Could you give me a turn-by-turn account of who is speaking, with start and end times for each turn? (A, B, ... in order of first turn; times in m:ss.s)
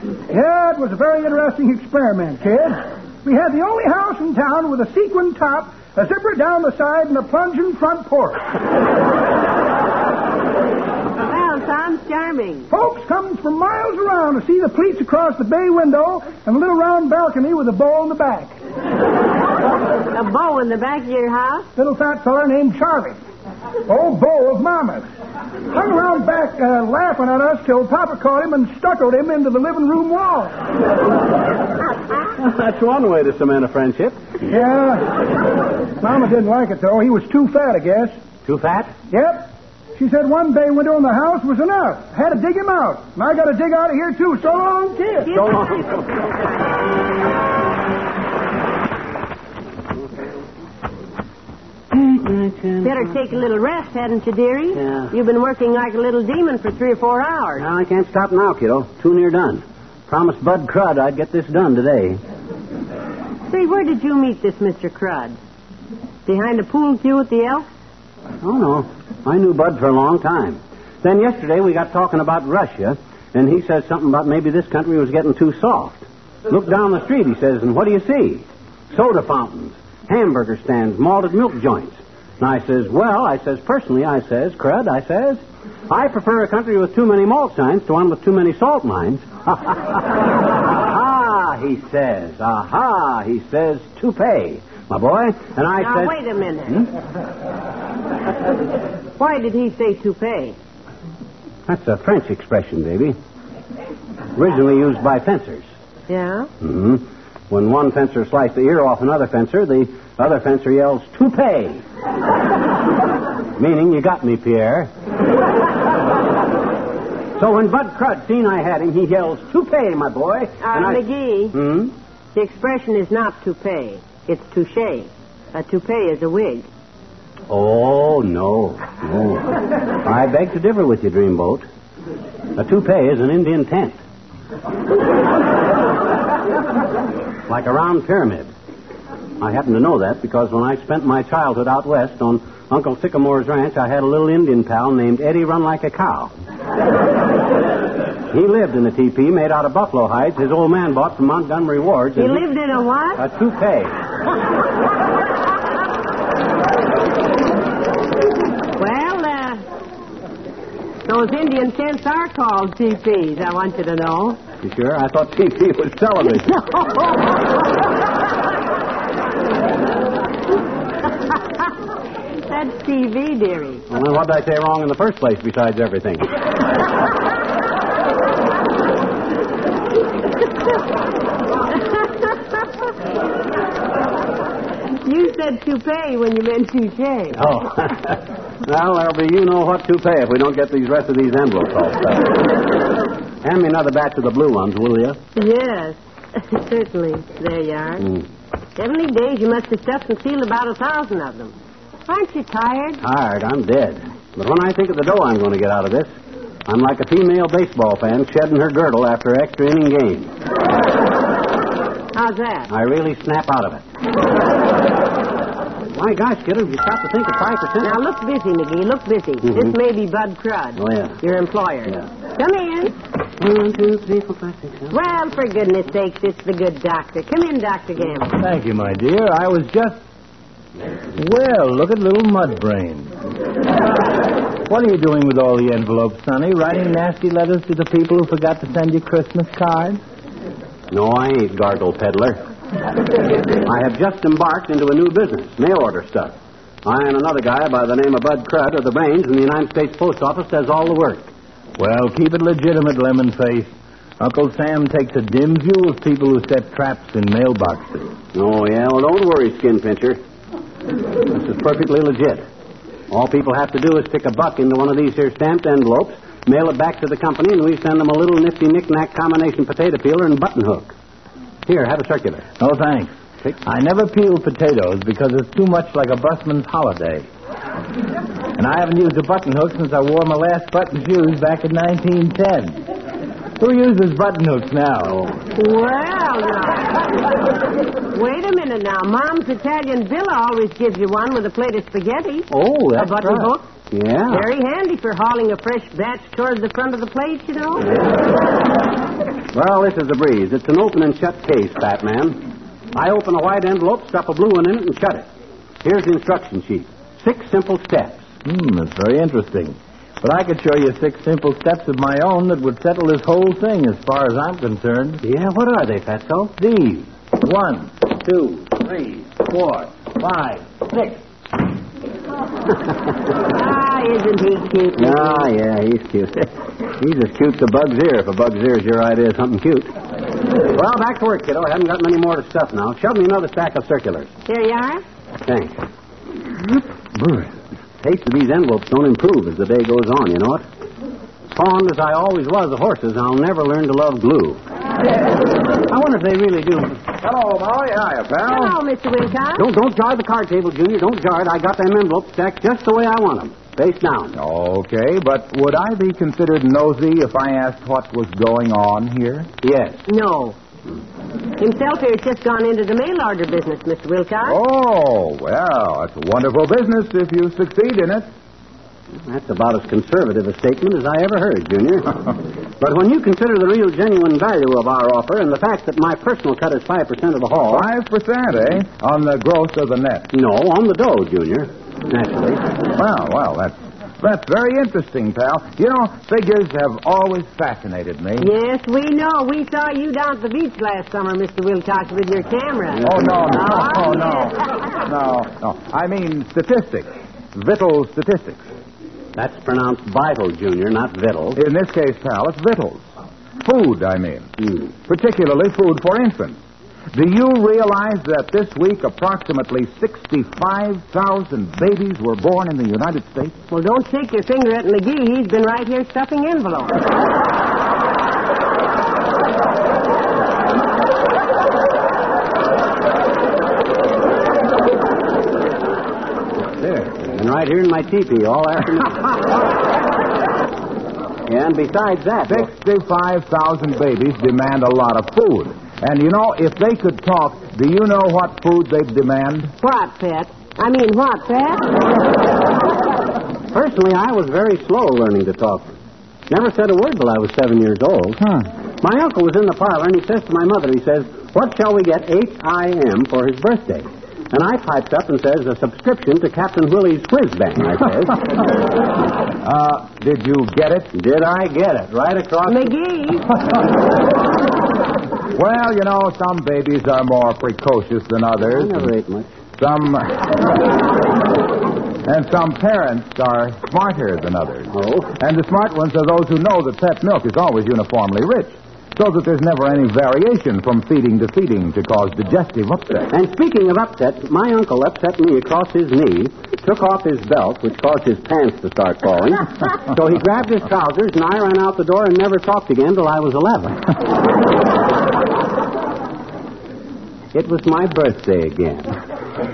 0:00.3-0:08.4 A
0:11.2-0:12.7 B
0:12.7-0:18.6 A
0:20.1-0:21.7 B
0:21.8-0:23.2 A
0:23.9-0:25.0 A
0:25.7-0:30.5 A
0:32.4-0:34.2 C
0:34.5-0:35.2 A
0:36.0-0:38.2 A
0:38.4-0:38.9 C
0:39.1-0:45.3 A
0:45.2-0:46.5 B
0:45.3-0:46.1 C
0:51.9-0:53.1 C
0:52.8-0:57.7 B
0:54.8-0:55.1 C
0:57.6-1:02.2 C
1:03.5-1:05.4 B
1:06.2-1:07.7 B
1:08.4-1:36.2 C
1:35.8-1:36.9 B
1:39.2-1:40.6 B
1:41.7-1:43.2 C
1:44.3-1:45.7 C
1:46.1-1:46.5 B
1:46.6-1:51.8 C
1:53.6-1:54.9 C
1:57.4-2:01.9 C
2:00.6-2:01.6 B
2:02.3-2:06.7 B
2:07.5-2:11.6 C
2:12.6-2:14.0 C
2:17.5-2:18.5 C
2:19.4-2:26.3 C
2:28.3-2:32.4 C
2:32.2-2:33.2 B
2:33.2-2:33.9 C
2:38.8-2:39.6 B
2:41.0-2:44.4 B
2:44.6-2:46.9 C
2:52.5-2:53.8 B
2:53.9-2:56.3 C
3:05.0-3:07.6 B
3:07.4-3:12.5 C
3:13.4-3:15.2 C
3:15.4-3:18.1 B
3:18.8-3:21.5 B
3:22.1-3:23.0 B
3:23.0-3:26.1 C
3:26.7-3:30.3 C
3:32.1-3:32.7 B
3:32.7-3:33.8 C
3:35.9-3:38.0 C
3:37.8-3:43.0 B
3:40.8-3:41.2 C
3:43.4-3:44.9 C
3:44.9-3:48.4 B
3:48.4-3:50.0 D
3:51.2-3:53.1 D
3:54.6-4:00.0 D
4:00.9-4:02.4 C
4:03.6-4:11.3 C
4:11.8-4:18.1 D
4:18.3-4:20.2 C
4:21.3-4:22.4 C
4:23.1-4:30.9 C
4:31.7-4:32.5 C
4:32.6-4:37.3 D
4:38.6-4:42.9 D
4:43.6-4:45.2 D
4:45.1-4:45.4 C
4:45.6-4:47.0 B
4:48.1-4:53.6 B
4:52.5-4:54.5 C
4:54.3-4:57.9 B
4:59.5-5:05.2 C
5:05.8-5:08.3 C
5:08.4-5:15.2 D
5:15.2-5:16.5 C
5:16.6-5:21.2 D
5:23.5-5:25.5 B
5:25.0-5:29.9 C
5:30.6-5:34.3 C
5:34.5-5:35.0 B
5:35.4-5:35.8 C
5:37.2-5:40.6 C
5:41.5-5:44.6 C
5:45.9-5:47.0 C
5:47.2-5:48.8 E
5:48.4-5:49.6 B
5:49.6-5:54.4 C
5:54.3-5:59.5 E
5:59.6-6:00.0 C
6:00.1-6:00.6 B
6:01.6-6:04.6 B
6:04.4-6:08.3 E
6:09.2-6:17.8 C
6:17.7-6:20.3 E
6:20.3-6:22.6 C
6:22.9-6:28.5 E
6:28.4-6:34.5 B
6:33.0-6:33.8 C
6:33.0-6:38.6 E
6:39.3-6:41.6 C
6:41.5-6:43.0 E
6:43.6-6:46.6 E
6:47.1-6:53.6 E
6:53.7-6:57.0 B
7:06.6-7:09.6 C
7:11.5-7:12.7 C
7:12.5-7:19.7 E
7:19.8-7:22.0 B
7:23.7-7:25.9 C
7:26.5-7:28.4 C
7:29.0-7:38.4 C
7:39.6-7:41.1 E
7:41.1-7:42.9 C
7:42.7-7:43.5 B
7:45.5-7:49.1 E
7:48.6-7:49.5 C
7:49.8-7:50.7 E
7:52.2-8:03.3 E
7:54.9-7:55.3 C
8:03.3-8:14.0 C
8:17.5-8:19.2 C